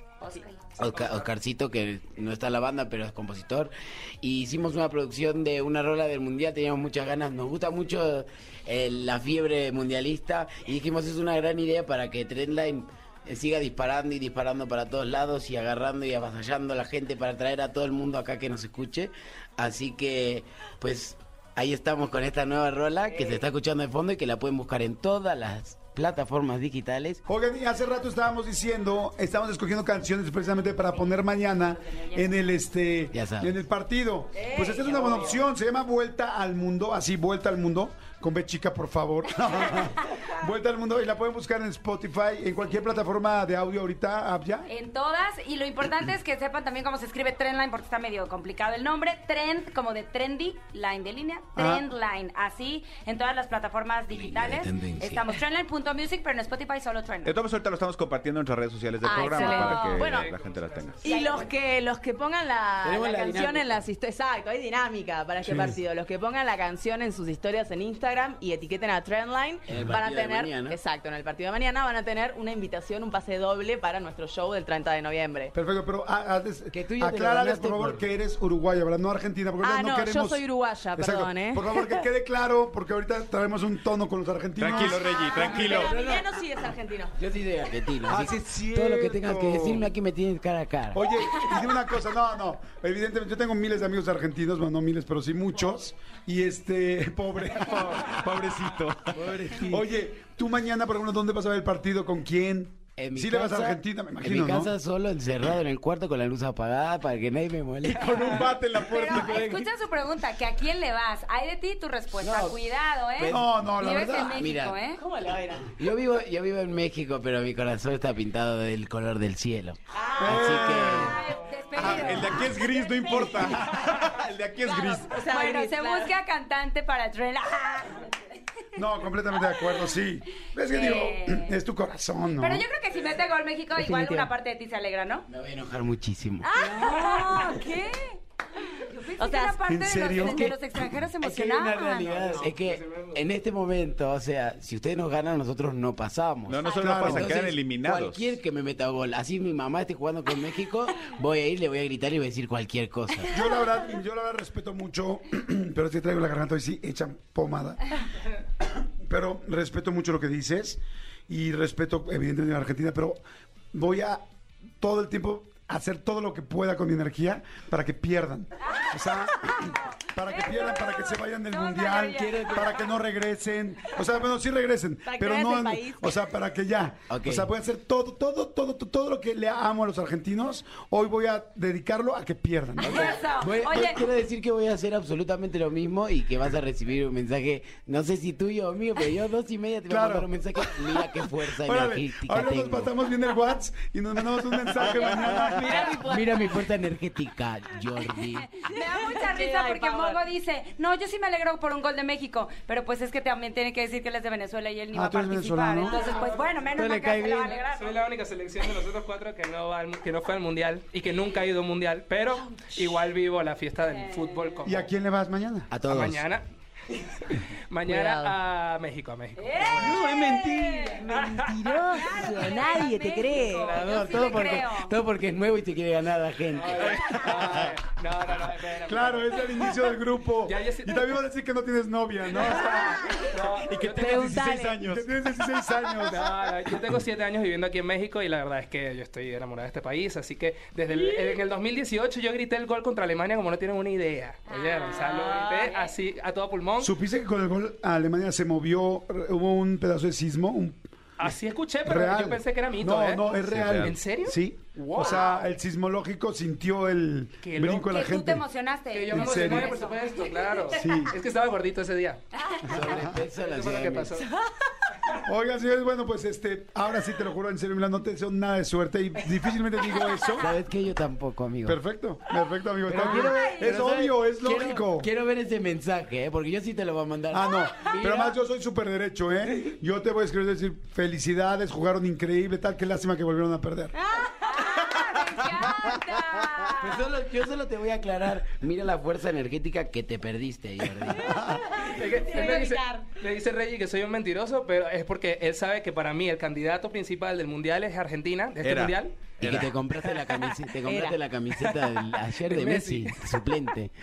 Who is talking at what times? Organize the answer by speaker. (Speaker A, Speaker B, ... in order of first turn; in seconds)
Speaker A: 0.2-0.5, 31.1-32.4, 44.7-57.4, 59.4-59.8, 61.0-61.4, 108.8-115.0, 120.7-123.5, 124.7-128.2, 130.7-131.6, 132.4-135.2, 136.5-142.1, 168.6-172.8, 182.8-184.0, 194.8-195.9, 198.6-208.0, 213.9-214.6, 219.4-221.1, 221.9-224.9, 244.5-245.3, 257.9-260.6, 262.3-262.7, 273.0-273.8, 284.4-287.1
Speaker B: 0.8-27.2, 33.1-33.5, 54.1-55.4, 62.8-63.8, 69.7-70.8, 76.7-78.0, 85.7-86.2, 87.1-91.1, 99.1-99.8, 103.0-108.5, 112.2-112.6, 113.1-114.8, 115.7-121.2, 133.8-134.3, 135.3-136.5, 141.2-153.4, 172.1-172.7, 177.1-177.5, 182.8-192.9, 195.8-198.6, 206.7-207.5, 215.7-216.2, 219.9-220.4, 221.0-221.4, 222.2-222.5, 223.3-227.2, 262.6-264.2, 270.4-271.8, 272.9-278.4, 286.8-291.4, 299.4-303.9
Speaker C: 0.9-1.3, 59.4-60.9, 107.9-108.2, 142.0-143.2, 205.8-206.5, 207.6-214.9, 215.8-216.4, 217.2-220.0, 221.1-221.5, 226.5-229.8, 230.4-231.2, 232.3-234.4, 236.0-246.9, 251.2-255.4, 257.4-257.9, 258.9-262.2, 262.7-264.3, 291.8-299.3, 301.5-303.4
Speaker D: 27.3-44.7, 51.5-51.9, 65.4-65.7, 75.5-80.4, 80.9-85.5, 88.0-89.9, 90.9-98.5, 99.2-104.7, 113.3-114.4, 120.2-121.2, 128.8-132.7, 139.7-140.6, 146.8-147.4, 153.3-157.9, 159.0-163.2, 163.7-164.2, 164.8-183.2, 189.9-195.9, 204.9-206.1, 214.6-215.7, 227.1-227.8, 228.9-233.0, 233.8-236.3, 246.8-250.8, 251.8-258.4, 259.1-259.8, 260.7-261.2, 262.6-263.2, 265.2-270.5, 271.6-275.1, 277.3-283.9, 291.2-291.6
Speaker E: 34.3-35.4, 59.0-60.3, 61.0-75.5, 79.6-82.0, 84.9-87.1, 114.9-115.7, 119.9-120.4, 124.7-126.1, 136.4-137.8, 139.2-139.6, 140.2-140.5, 175.0-176.1, 195.4-196.6, 198.9-200.2, 217.8-218.3, 220.0-220.3, 220.9-223.9, 234.0-234.8, 244.9-245.9, 284.0-284.9, 291.3-293.1, 300.8-301.2
Speaker F: 57.2-61.0, 84.6-86.0, 97.7-99.2, 108.0-109.7, 121.7-125.1, 146.5-148.4, 233.6-235.0, 253.5-253.9, 298.6-299.7